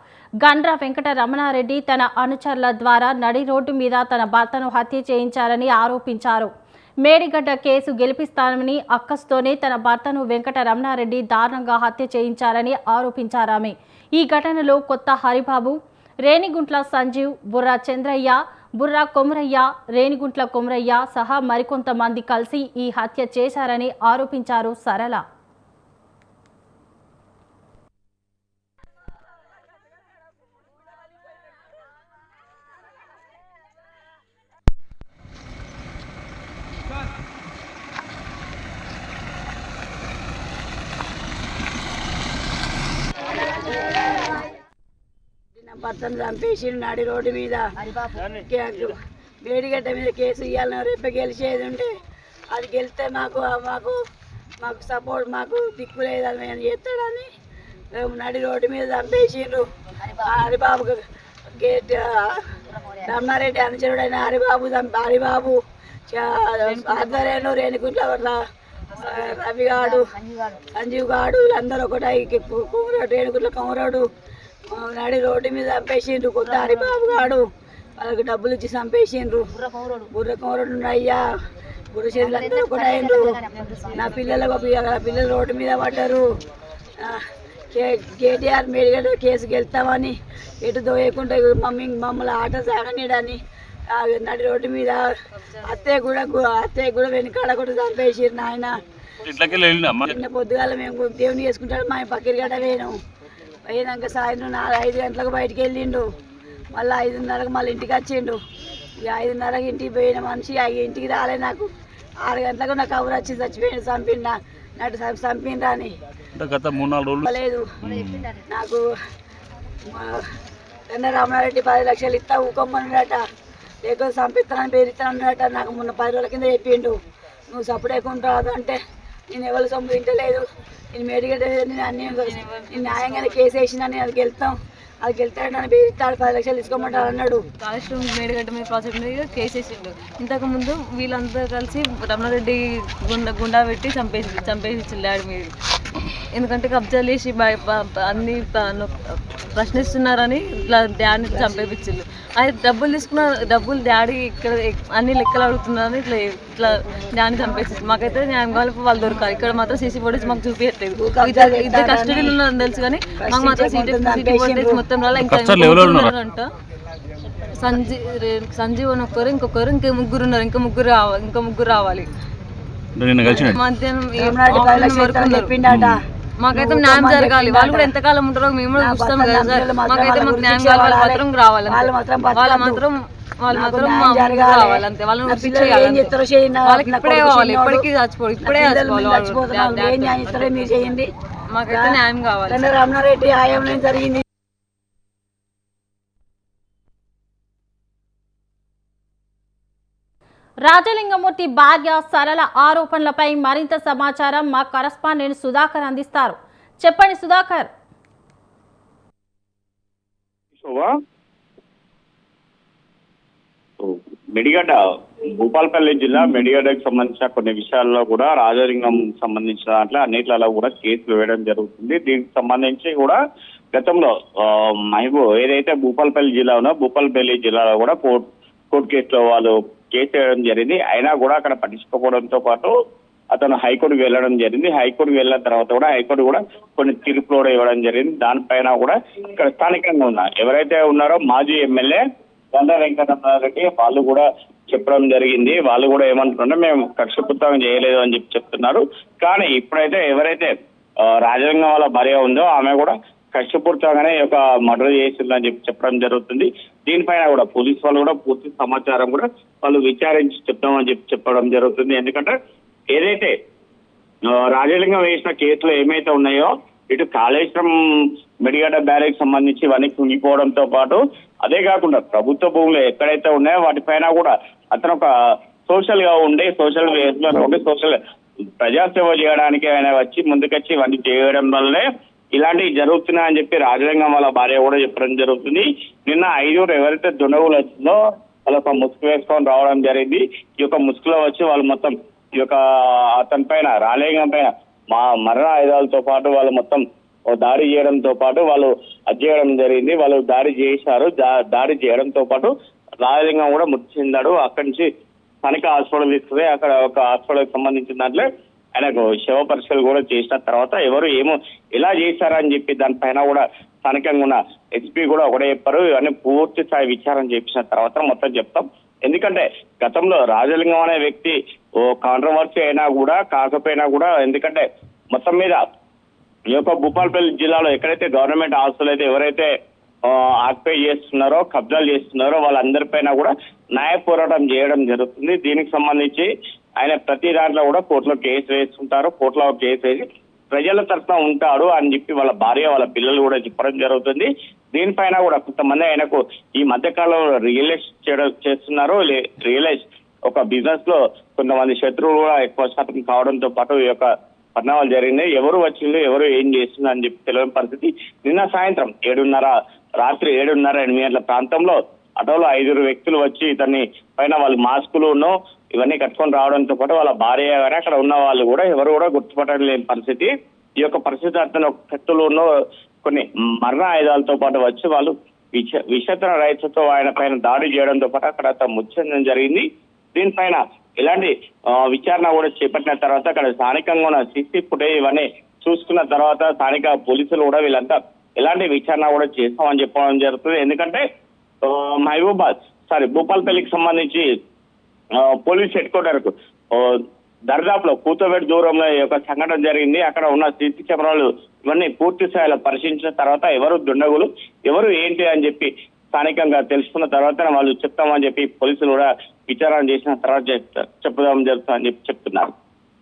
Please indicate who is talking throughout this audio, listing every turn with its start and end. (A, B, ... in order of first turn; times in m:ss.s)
0:00.4-0:25.2 A
0:45.6-0:47.6 B
0:48.2-0:51.9 B
0:52.5-0:54.0 B
0:54.6-0:57.3 B
0:58.0-1:01.0 B
1:01.5-1:02.4 B
1:03.0-1:08.4 B
1:06.7-1:07.2 C
1:09.0-1:10.0 B
1:10.7-1:14.1 B
1:14.7-1:17.4 B
1:18.0-1:19.5 B
1:20.1-1:21.2 B
1:21.9-1:23.4 B
1:23.9-1:26.2 B
1:27.7-1:33.4 B
1:33.9-1:35.0 B
1:35.6-1:38.7 B
1:39.3-1:40.1 D
1:40.0-1:43.0 B
1:43.7-1:46.0 B
1:46.7-1:48.4 B
1:49.0-1:51.7 B
1:52.2-1:56.0 B
1:56.4-1:57.2 D
1:57.2-1:57.6 B
1:57.8-1:58.2 D
1:58.4-1:58.8 B
1:59.9-2:00.2 B
2:00.9-2:03.2 B
2:03.8-2:06.9 B
2:07.5-2:08.8 B
2:09.3-2:17.4 B
2:12.2-2:13.3 C
2:17.6-2:25.5 C
2:26.3-2:46.5 C
2:41.0-2:42.3 B
2:43.2-2:44.8 B
2:45.2-2:46.1 D
2:47.5-2:52.1 C
2:53.0-2:53.5 D
2:53.3-2:55.6 C
2:54.2-2:56.0 B
2:56.4-3:06.1 C
2:56.5-2:57.9 B
2:58.7-3:02.8 B
3:03.5-3:07.8 B
3:06.6-3:10.7 C
3:08.4-3:11.1 B
3:11.5-3:12.6 C
3:11.7-3:14.2 B
3:20.6-3:27.7 A
3:30.6-3:30.9 E
3:33.8-3:43.2 E
3:43.7-3:52.7 E
3:53.3-4:02.0 E
4:02.5-4:10.5 E
4:11.0-4:22.4 E
4:22.9-4:23.3 E
4:24.3-4:35.1 E
4:35.7-4:38.0 E
4:38.6-5:02.5 E
5:03.0-5:04.9 E
5:05.4-5:25.6 E
5:26.5-5:29.5 E
5:30.0-5:36.3 E
5:36.8-6:10.3 E
6:10.8-6:12.5 E
6:13.0-6:31.0 E
6:31.6-6:34.3 E
6:35.2-6:52.5 E